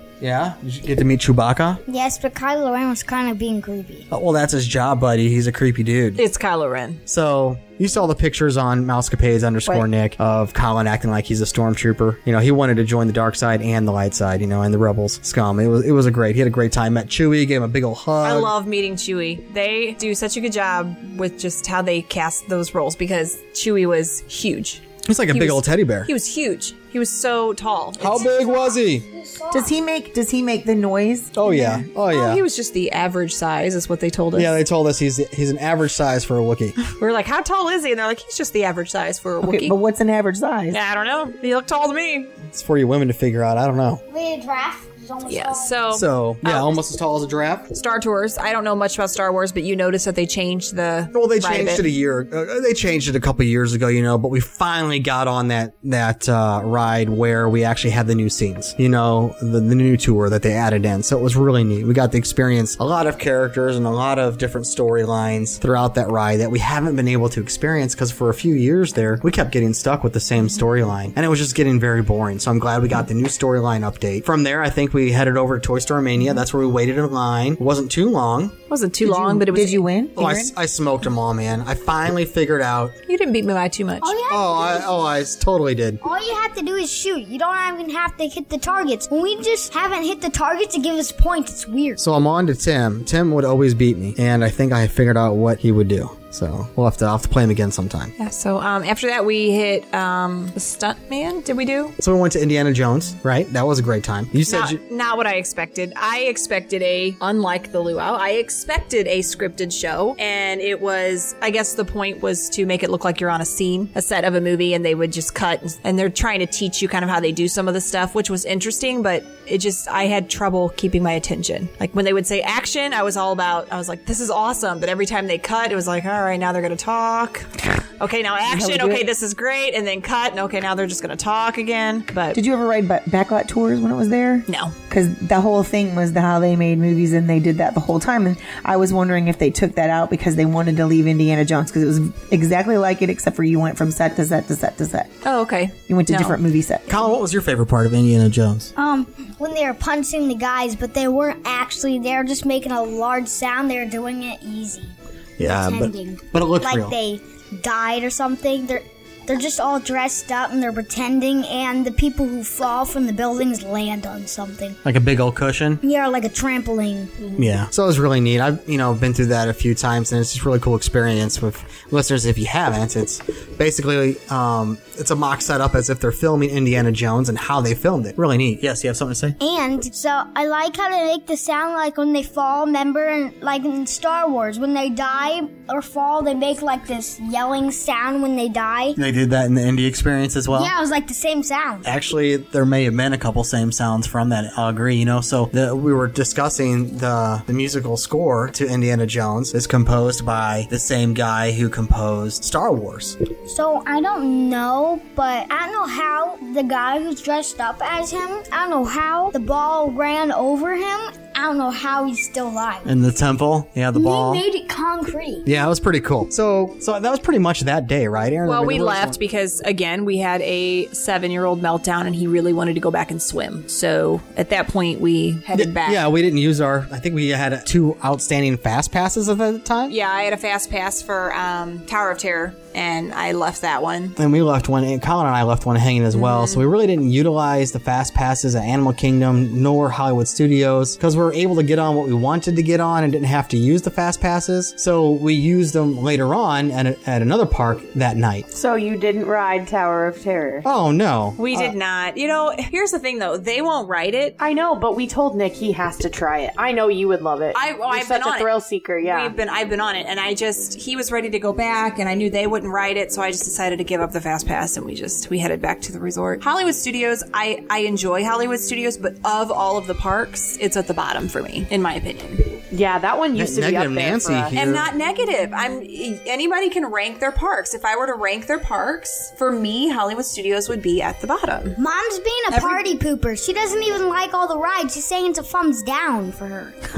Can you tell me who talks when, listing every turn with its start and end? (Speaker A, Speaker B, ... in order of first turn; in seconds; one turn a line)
Speaker A: 0.2-1.8
Speaker B: 1.9-4.0
Speaker A: 4.1-6.2
Speaker C: 6.2-7.0
Speaker A: 7.1-18.5
Speaker C: 18.2-28.4
Speaker A: 25.1-26.1
Speaker A: 28.0-29.1
Speaker B: 28.2-29.7
Speaker D: 29.5-31.4
Speaker A: 31.4-32.4
Speaker C: 31.4-34.5
Speaker A: 34.3-36.8
Speaker C: 36.8-39.8
Speaker D: 39.4-40.8
Speaker C: 40.7-42.3
Speaker A: 42.5-44.0
Speaker B: 44.1-45.8
Speaker C: 45.3-46.8
Speaker A: 45.9-47.7
Speaker C: 47.7-51.8
Speaker A: 51.1-78.5
Speaker C: 78.7-79.9
Speaker D: 79.0-80.5
Speaker A: 80.2-83.0
Speaker C: 83.1-84.1
Speaker B: 84.0-85.0
Speaker A: 84.3-86.0
Speaker B: 86.0-92.0
Speaker A: 92.0-98.1
Speaker C: 98.2-101.9
Speaker A: 102.0-104.8
Speaker C: 104.5-132.4
Speaker D: 128.5-129.1
Speaker D: 132.3-145.1
Speaker C: 134.5-134.7
Speaker C: 145.2-146.4
Speaker D: 145.9-147.1
Speaker A: 146.9-148.7
Speaker B: 148.8-164.8
Speaker A: 155.4-156.9
Speaker A: 164.8-165.8
Speaker B: 165.8-167.2
Speaker A: 167.3-179.4
Speaker B: 179.4-189.0
Speaker A: 188.9-190.7
Speaker B: 190.5-191.9
Speaker A: 191.8-203.2
Speaker B: 203.4-212.9
Speaker A: 212.8-214.4
Speaker B: 213.9-215.5
Speaker A: 215.4-219.2
Speaker C: 218.4-226.0
Speaker A: 225.5-229.9
Speaker C: 229.9-234.2
Speaker A: 234.2-248.5
Speaker C: 236.1-236.6
Speaker E: 248.5-250.7
Speaker A: 250.6-251.6
Speaker C: 251.4-254.3
Speaker E: 254.4-259.3
Speaker C: 257.5-258.5
Speaker C: 259.0-272.5
Speaker E: 272.7-274.5
Speaker A: 273.3-274.9
Speaker C: 274.5-281.8
Speaker B: 281.8-286.8
Speaker C: 282.5-282.9